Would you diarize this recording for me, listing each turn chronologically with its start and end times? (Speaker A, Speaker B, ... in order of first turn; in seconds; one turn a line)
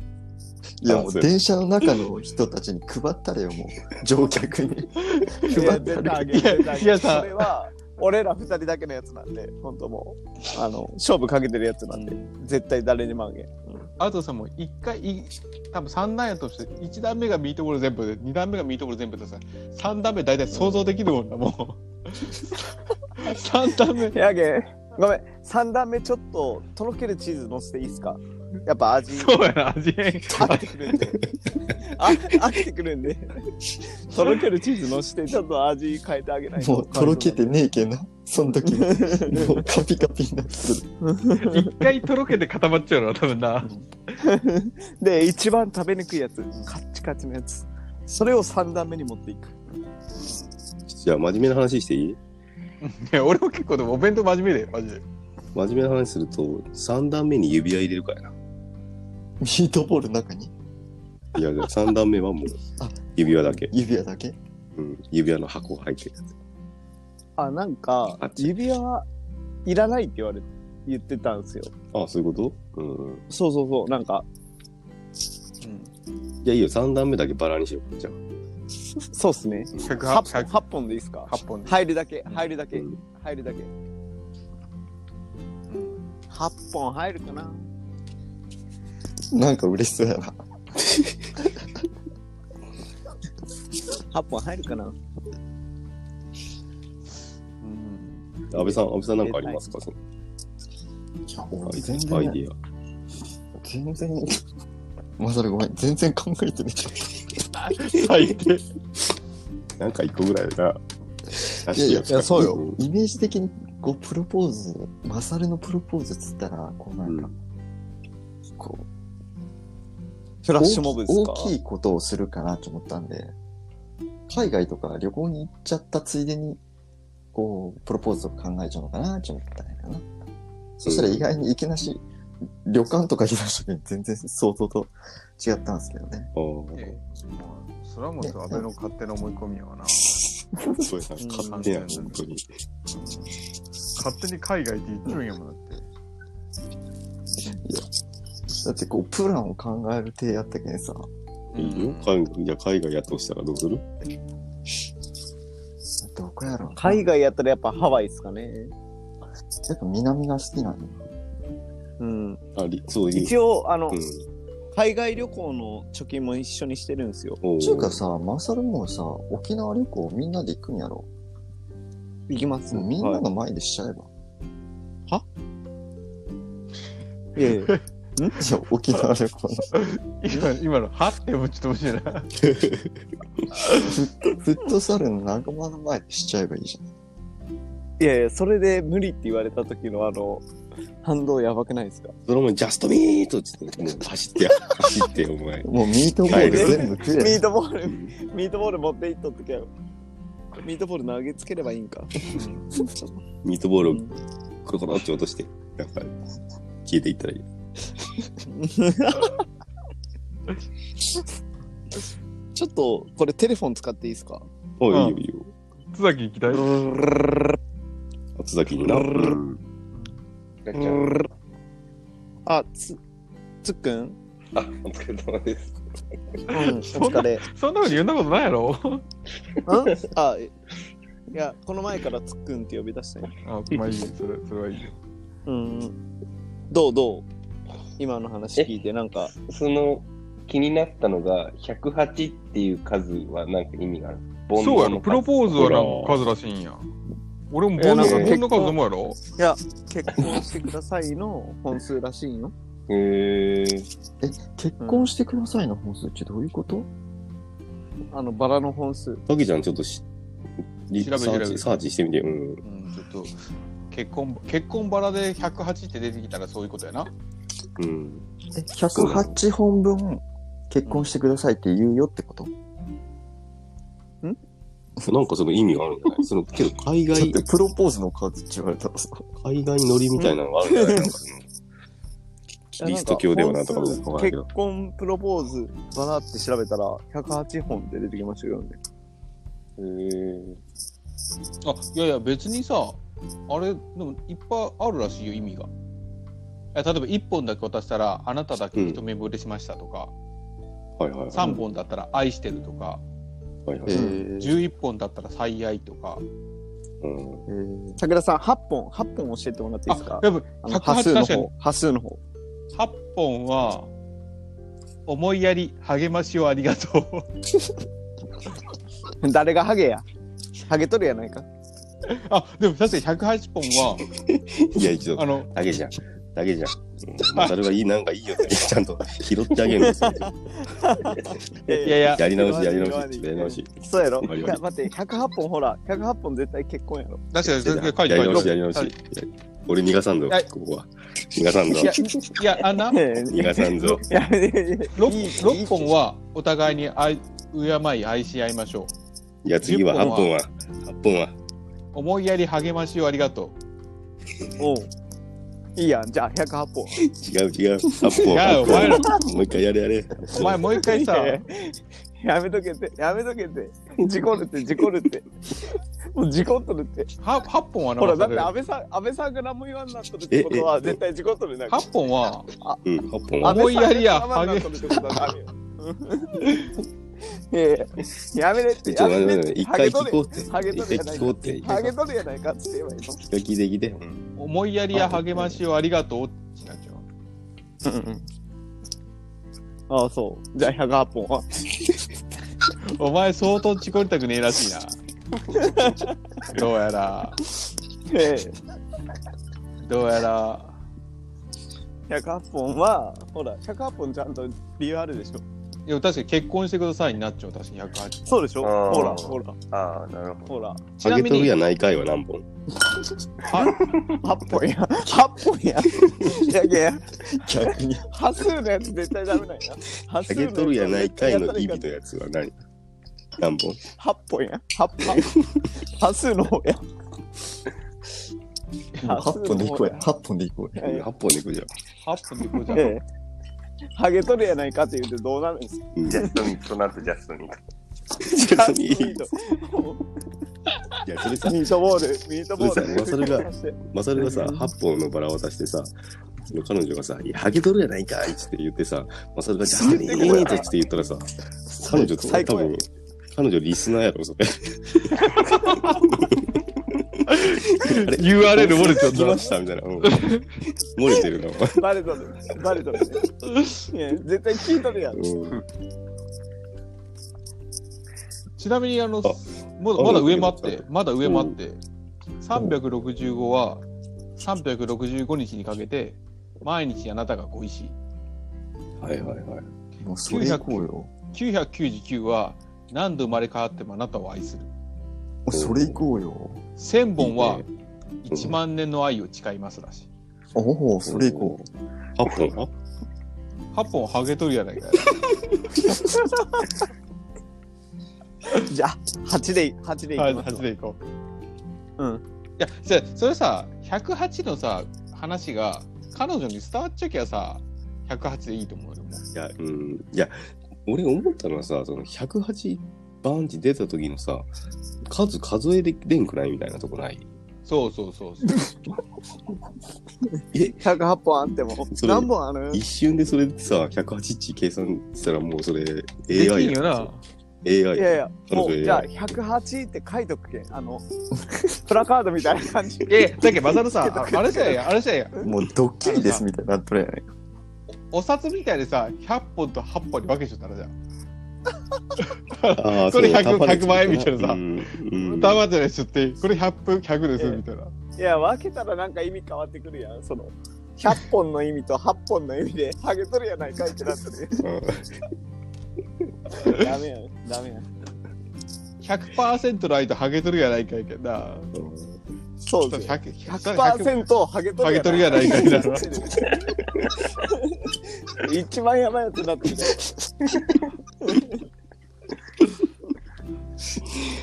Speaker A: 0.8-6.4
Speaker B: 0.9-1.4
Speaker C: 5.1-7.5
Speaker D: 5.5-13.9
Speaker C: 14.0-24.1
Speaker D: 20.5-20.8
Speaker D: 24.1-29.4
Speaker C: 29.2-31.1
Speaker D: 30.4-31.2
Speaker D: 31.8-37.5
Speaker A: 36.6-40.9
Speaker D: 38.7-39.6
Speaker D: 41.0-41.9
Speaker C: 41.4-44.2
Speaker D: 44.2-49.7
Speaker C: 50.2-50.5
Speaker B: 50.9-52.2
Speaker C: 52.8-55.0
Speaker B: 55.5-58.3
Speaker A: 59.4-60.5
Speaker B: 61.4-62.6
Speaker A: 62.8-64.4
Speaker B: 63.1-63.7
Speaker B: 64.8-66.3
Speaker D: 67.4-69.1
Speaker B: 68.2-68.5
Speaker D: 69.7-71.7
Speaker B: 71.9-73.2
Speaker D: 73.3-74.3
Speaker C: 75.6-75.9
Speaker B: 76.4-78.2
Speaker D: 79.1-83.7
Speaker B: 79.7-80.0
Speaker C: 79.8-80.5
Speaker C: 81.3-82.5
Speaker C: 85.7-86.0
Speaker D: 86.3-87.7
Speaker A: 89.3-90.4
Speaker D: 94.1-95.0
Speaker C: 97.6-98.3
Speaker B: 98.5-100.0
Speaker D: 99.2-99.7
Speaker A: 101.4-102.4
Speaker B: 101.7-102.5
Speaker A: 103.6-104.4
Speaker A: 105.2-107.1
Speaker C: 107.5-108.6
Speaker B: 109.8-110.8
Speaker B: 111.4-112.8
Speaker A: 111.7-117.3
Speaker D: 112.1-112.6
Speaker B: 117.0-117.3
Speaker A: 118.6-118.9
Speaker D: 120.4-121.5
Speaker A: 120.6-123.3
Speaker A: 124.3-126.6
Speaker A: 127.3-130.1
Speaker B: 130.8-131.3
Speaker A: 130.8-132.0
Speaker A: 132.6-136.3
Speaker B: 136.3-137.0
Speaker C: 136.8-140.2
Speaker A: 138.2-138.7
Speaker A: 140.6-140.9
Speaker B: 140.8-142.4
Speaker D: 141.2-141.6
Speaker C: 141.5-142.2
Speaker C: 142.9-143.3
Speaker C: 144.0-145.9
Speaker A: 147.5-147.9
Speaker A: 148.6-151.1
Speaker C: 151.5-152.2
Speaker B: 151.6-153.9
Speaker A: 156.0-157.0
Speaker D: 156.8-158.7
Speaker A: 159.7-161.0
Speaker D: 162.0-162.4
Speaker B: 162.6-163.3
Speaker D: 163.1-164.0
Speaker B: 163.9-164.2
Speaker D: 164.8-167.4
Speaker B: 167.4-168.0
Speaker A: 167.6-171.1
Speaker D: 172.3-173.2
Speaker A: 172.7-174.1
Speaker D: 177.4-178.4
Speaker A: 178.4-179.7
Speaker C: 179.7-182.3
Speaker B: 182.5-182.9
Speaker C: 183.6-183.9
Speaker A: 183.7-186.8
Speaker D: 188.0-190.4
Speaker D: 191.0-192.1
Speaker B: 192.3-195.7
Speaker A: 195.6-197.4
Speaker B: 196.3-196.9
Speaker D: 196.3-199.7
Speaker D: 200.6-202.3
Speaker C: 202.3-202.9
Speaker B: 203.4-204.0
Speaker B: 204.7-206.1
Speaker B: 206.8-207.4
Speaker D: 208.5-209.4
Speaker D: 212.6-214.5
Speaker B: 214.8-215.5
Speaker C: 214.9-215.2
Speaker C: 215.9-216.8
Speaker D: 216.7-217.5
Speaker B: 218.4-219.6
Speaker D: 218.9-219.3
Speaker E: 220.7-221.2
Speaker D: 220.8-221.2
Speaker D: 222.5-223.0
Speaker D: 223.6-224.2
Speaker E: 224.6-225.8
Speaker D: 226.5-227.4
Speaker C: 226.5-229.0
Speaker D: 229.7-230.5
Speaker D: 231.3-233.3
Speaker C: 233.4-234.9
Speaker D: 235.5-236.0
Speaker D: 236.7-237.3
Speaker D: 238.0-239.3
Speaker E: 239.3-245.4
Speaker C: 244.6-246.9
Speaker B: 245.5-246.2
Speaker C: 247.5-249.2
Speaker D: 247.8-248.8
Speaker E: 247.9-248.5
Speaker D: 249.4-252.5
Speaker E: 252.9-253.9
Speaker A: 254.2-256.9
Speaker D: 254.8-255.1
Speaker D: 258.1-259.2
Speaker B: 259.3-260.0
Speaker B: 260.9-262.6
Speaker C: 261.0-261.7
Speaker C: 262.6-263.4
Speaker C: 263.9-267.1
Speaker B: 267.8-268.3
Speaker A: 268.6-272.5
Speaker B: 268.9-269.4
Speaker B: 275.1-277.4
Speaker A: 277.1-279.3
Speaker B: 279.4-281.4
Speaker D: 280.2-281.1
Speaker B: 282.7-284.5
Speaker D: 282.8-288.8
Speaker E: 289.8-290.6
Speaker C: 291.6-295.7
Speaker C: 296.7-300.1
Speaker B: 298.7-299.0
Speaker B: 301.0-301.6
Speaker C: 301.3-303.0
Speaker B: 303.7-304.1
Speaker A: 303.9-304.6
Speaker D: 303.9-304.2
Speaker C: 304.4-306.2
Speaker B: 307.0-307.4
Speaker A: 307.5-308.0
Speaker D: 308.0-312.2
Speaker C: 309.9-311.5
Speaker C: 312.7-313.9
Speaker C: 315.1-317.3
Speaker D: 319.2-320.1
Speaker D: 320.7-321.5
Speaker C: 322.1-324.1
Speaker B: 324.3-331.1
Speaker C: 325.2-325.5
Speaker C: 327.3-327.6
Speaker D: 329.7-337.2
Speaker C: 331.7-332.2
Speaker B: 332.1-334.6
Speaker C: 337.3-338.9
Speaker B: 337.4-342.1
Speaker C: 341.7-343.1
Speaker D: 342.8-345.9
Speaker B: 343.2-344.1
Speaker C: 345.0-348.9
Speaker B: 349.4-351.3
Speaker C: 349.6-350.3
Speaker C: 351.9-353.6
Speaker D: 354.6-354.9
Speaker D: 355.8-357.0
Speaker B: 357.0-360.6
Speaker C: 358.3-359.2
Speaker C: 360.3-361.4
Speaker D: 360.7-365.3
Speaker D: 366.1-367.1
Speaker C: 367.2-368.5
Speaker D: 368.0-371.9
Speaker B: 370.3-371.0
Speaker C: 371.7-372.5
Speaker B: 372.9-373.6
Speaker C: 373.4-375.0
Speaker D: 373.4-376.7
Speaker D: 377.5-383.2
Speaker B: 378.8-381.9
Speaker B: 383.3-384.2
Speaker C: 384.4-387.1
Speaker D: 384.9-385.6
Speaker D: 387.9-388.2
Speaker D: 389.9-391.6
Speaker C: 392.8-394.9
Speaker D: 395.6-396.1
Speaker C: 396.4-397.4
Speaker D: 398.1-398.6
Speaker C: 399.8-400.8
Speaker D: 402.1-405.4
Speaker C: 405.9-408.3
Speaker D: 408.3-409.6
Speaker E: 408.6-410.6
Speaker D: 410.5-410.8
Speaker C: 411.0-411.5
Speaker B: 411.0-412.4
Speaker C: 413.4-413.9
Speaker E: 413.8-414.1
Speaker D: 414.2-417.2
Speaker A: 417.3-418.1
Speaker D: 418.1-421.9
Speaker B: 420.3-422.5
Speaker B: 423.4-423.8
Speaker D: 424.0-425.3
Speaker D: 425.8-426.8
Speaker A: 429.0-430.9
Speaker D: 429.0-430.1
Speaker D: 430.8-431.0
Speaker B: 430.9-431.7
Speaker C: 432.0-433.0
Speaker D: 432.7-433.0
Speaker D: 433.9-436.3
Speaker B: 436.0-436.3
Speaker E: 436.1-437.6
Speaker B: 438.2-439.2
Speaker D: 438.2-440.0
Speaker B: 441.0-441.7
Speaker D: 441.4-444.7
Speaker B: 442.6-445.9
Speaker B: 446.5-456.5
Speaker D: 449.7-450.7
Speaker A: 451.9-452.4
Speaker D: 452.1-452.8
Speaker C: 455.2-456.1
Speaker C: 457.3-459.5
Speaker B: 457.4-460.3
Speaker C: 460.0-460.4
Speaker B: 460.9-461.8
Speaker D: 461.8-463.2
Speaker D: 463.9-465.3
Speaker B: 465.2-465.6
Speaker C: 468.6-471.8
Speaker B: 470.0-471.6
Speaker C: 472.4-473.8
Speaker C: 474.4-477.9
Speaker B: 479.0-479.7
Speaker A: 480.0-481.1
Speaker C: 480.3-484.7
Speaker A: 485.5-486.6
Speaker B: 485.5-486.0
Speaker C: 486.8-487.6
Speaker B: 487.2-487.7
Speaker C: 488.2-490.1
Speaker B: 488.3-488.6
Speaker A: 490.6-491.6
Speaker B: 491.1-491.6
Speaker B: 492.2-492.7
Speaker C: 493.7-495.3
Speaker D: 498.6-500.7
Speaker C: 500.2-501.0
Speaker D: 502.0-502.2
Speaker C: 502.6-509.2
Speaker B: 509.3-514.5
Speaker B: 515.1-517.3
Speaker C: 517.7-518.7
Speaker B: 520.5-520.8
Speaker D: 520.6-522.8
Speaker B: 521.9-527.1
Speaker C: 526.3-527.2
Speaker B: 527.6-529.1
Speaker D: 528.0-531.0
Speaker D: 531.7-534.9
Speaker C: 533.1-535.3
Speaker A: 535.4-537.2
Speaker C: 536.0-536.4
Speaker C: 538.1-540.9
Speaker C: 542.2-547.9
Speaker B: 542.8-545.6
Speaker D: 548.2-554.6
Speaker B: 554.6-555.1
Speaker D: 556.6-557.9
Speaker C: 559.0-561.7
Speaker B: 561.7-562.2
Speaker D: 562.6-566.6
Speaker C: 562.9-564.2
Speaker C: 564.8-566.1
Speaker D: 567.4-570.1
Speaker D: 571.2-571.5